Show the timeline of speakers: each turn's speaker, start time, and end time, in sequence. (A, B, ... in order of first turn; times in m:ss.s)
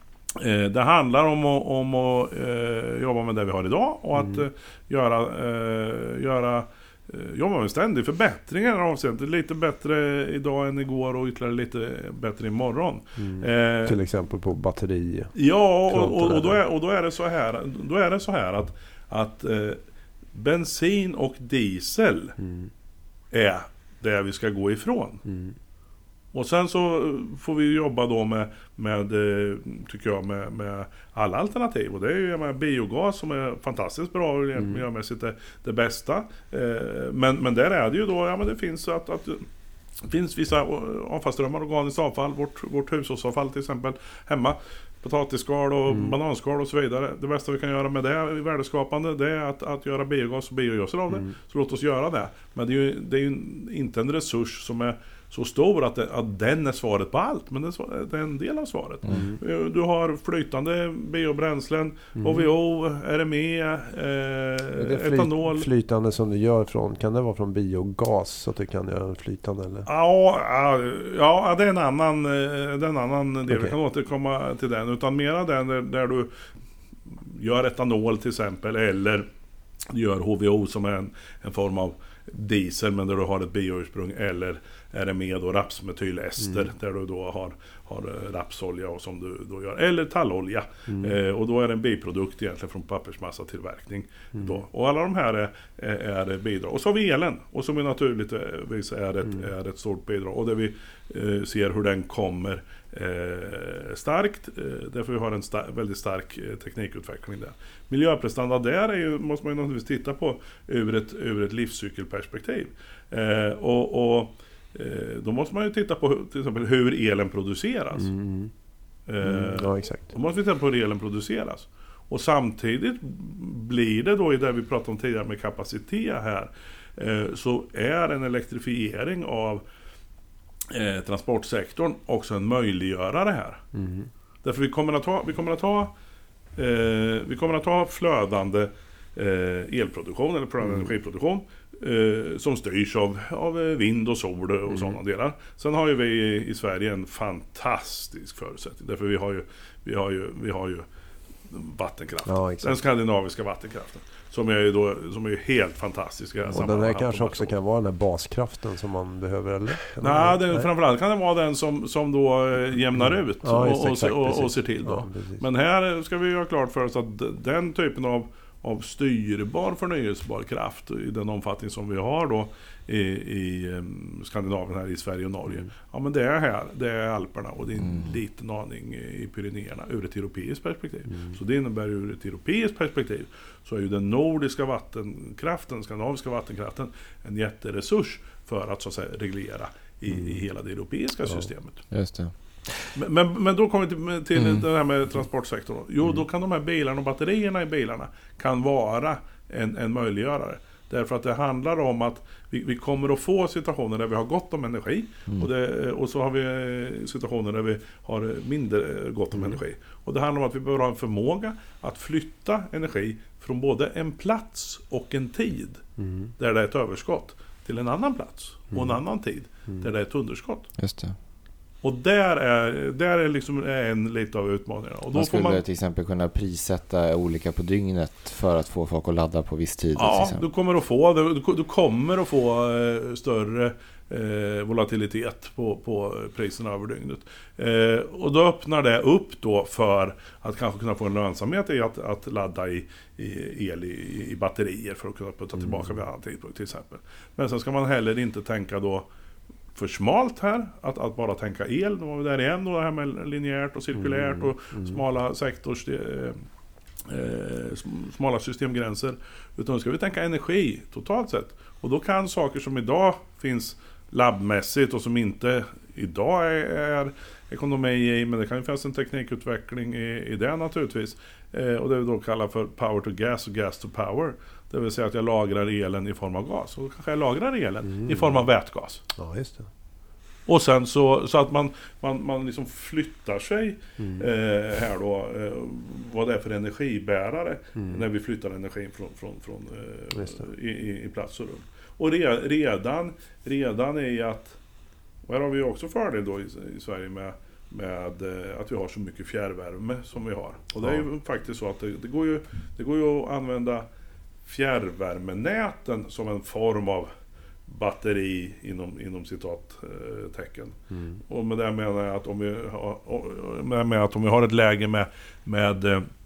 0:00.3-0:14.0 A
0:13.2-0:15.3 B
0:15.3-0:19.8 A
0:15.9-0:16.6 B
0:20.3-0:22.4 A
0:22.4-0:22.7 B
0:23.3-0:25.2 A
0:25.2-0:25.6 B
0:26.3-0:39.5 A
0:40.0-1:05.7 A
0:45.9-0:46.1 B
0:59.1-0:59.4 B
1:02.2-1:02.5 B
1:04.8-1:09.9 B
1:09.8-1:16.3 A
1:13.5-1:13.7 B
1:17.2-1:19.3 A
1:19.9-1:58.1 A
1:30.9-1:31.1 B
1:34.3-1:34.6 B
1:58.0-1:58.5 B
1:59.1-2:09.6 A
1:59.2-2:00.1 B
2:10.7-2:13.6 A
2:13.7-2:14.1 B
2:14.4-2:15.9 A
2:16.6-2:30.8 A
2:20.6-2:20.9 B
2:31.5-2:37.5 A
2:32.2-2:32.8 B
2:36.5-2:40.6 B
2:40.0-3:11.8 A
2:43.0-2:45.4 B
3:10.1-3:10.4 B
3:11.9-3:12.9 C
3:12.9-3:35.8 A
3:14.4-3:14.6 C
3:36.0-3:36.3 B
3:36.4-3:40.7 A
3:38.7-3:39.0 B
3:40.8-3:41.2 C
3:41.8-3:45.6 A
3:45.1-3:50.5 C
3:50.0-4:09.1 A
4:05.6-4:05.9 B
4:09.7-4:16.4 A
4:14.0-4:15.0 B
4:17.0-4:39.0 A
4:38.0-4:38.4 B
4:39.2-4:39.7 B
4:40.5-4:54.6 A
4:44.0-4:44.2 B
4:55.2-5:03.9 A
5:04.4-5:07.1 A
5:07.7-5:10.8 A
5:10.9-5:11.2 B
5:11.3-5:16.0 A